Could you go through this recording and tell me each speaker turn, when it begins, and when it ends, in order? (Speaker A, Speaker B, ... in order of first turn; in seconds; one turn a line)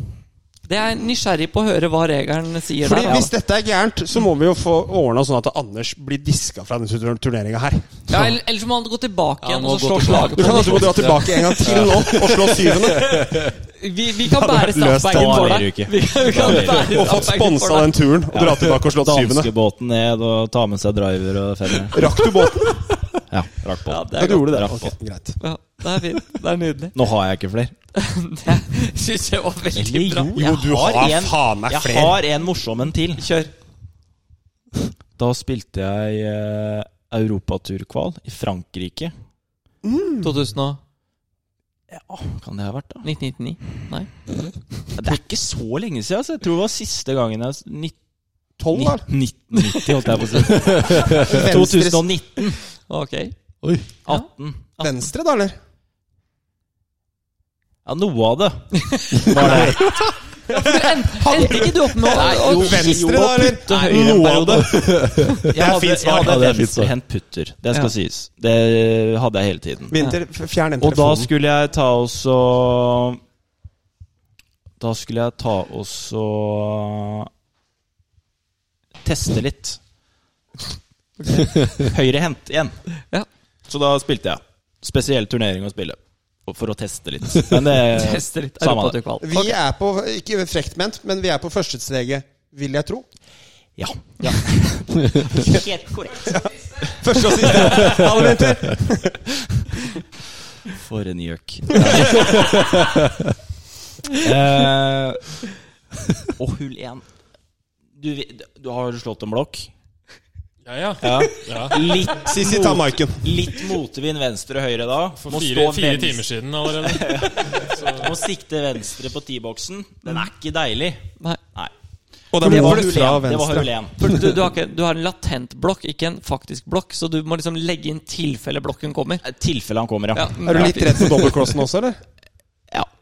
Speaker A: 0.7-3.3
Speaker B: 2.8-7.9
Speaker A: 8.1-11.1
Speaker C: 9.4-13.5
Speaker B: 10.3-13.4
Speaker A: 13.4-18.0
Speaker B: 14.2-15.7
Speaker D: 15.0-17.1
Speaker B: 16.4-19.5
Speaker D: 18.3-22.0
Speaker B: 21.9-22.9
Speaker D: 23.3-24.9
Speaker A: 23.9-24.7
Speaker B: 24.2-25.4
Speaker A: 25.4-26.9
Speaker D: 26.9-27.7
Speaker A: 27.9-30.4
Speaker D: 29.7-33.2
Speaker B: 30.3-32.2
Speaker A: 33.1-33.5
Speaker D: 35.2-39.1
Speaker B: 39.8-40.3
Speaker A: 40.2-40.8
Speaker D: 41.9-43.1
Speaker A: 43.0-44.1
Speaker D: 44.9-48.0
Speaker B: 48.6-49.1
Speaker D: 48.7-52.6
Speaker A: 49.6-49.9
Speaker B: 50.6-52.0
Speaker C: 50.9-51.2
Speaker A: 52.9-53.3
Speaker C: 53.6-53.9
Speaker D: 54.0-54.6
Speaker B: 54.8-55.5
Speaker D: 57.8-60.1
Speaker A: 58.9-59.6
Speaker B: 59.4-59.8
Speaker C: 59.5-60.1
Speaker A: 60.4-64.5
Speaker B: 60.7-66.4
Speaker D: 62.0-64.7
Speaker C: 64.7-65.5
Speaker D: 65.5-70.0
Speaker C: 66.1-66.9
Speaker B: 69.9-71.3
Speaker D: 70.8-73.2
Speaker D: 74.8-77.3
Speaker D: 79.0-79.8
Speaker A: 81.2-81.6
Speaker D: 81.7-82.9
Speaker D: 83.7-89.0
Speaker A: 87.9-89.6
Speaker B: 89.2-93.1
Speaker D: 93.8-96.9
Speaker B: 95.3-95.6
Speaker B: 96.2-99.3
Speaker D: 100.7-102.7
Speaker D: 104.1-105.4
Speaker D: 106.3-107.0
Speaker D: 108.0-109.7
Speaker E: 110.6-111.9
Speaker D: 111.0-121.7
Speaker B: 112.2-113.5
Speaker E: 115.2-118.2
Speaker B: 122.3-123.7
Speaker D: 122.4-124.0
Speaker A: 122.4-122.9
Speaker A: 124.0-129.2
Speaker D: 129.2-131.0
Speaker A: 130.1-131.4
Speaker B: 130.4-132.0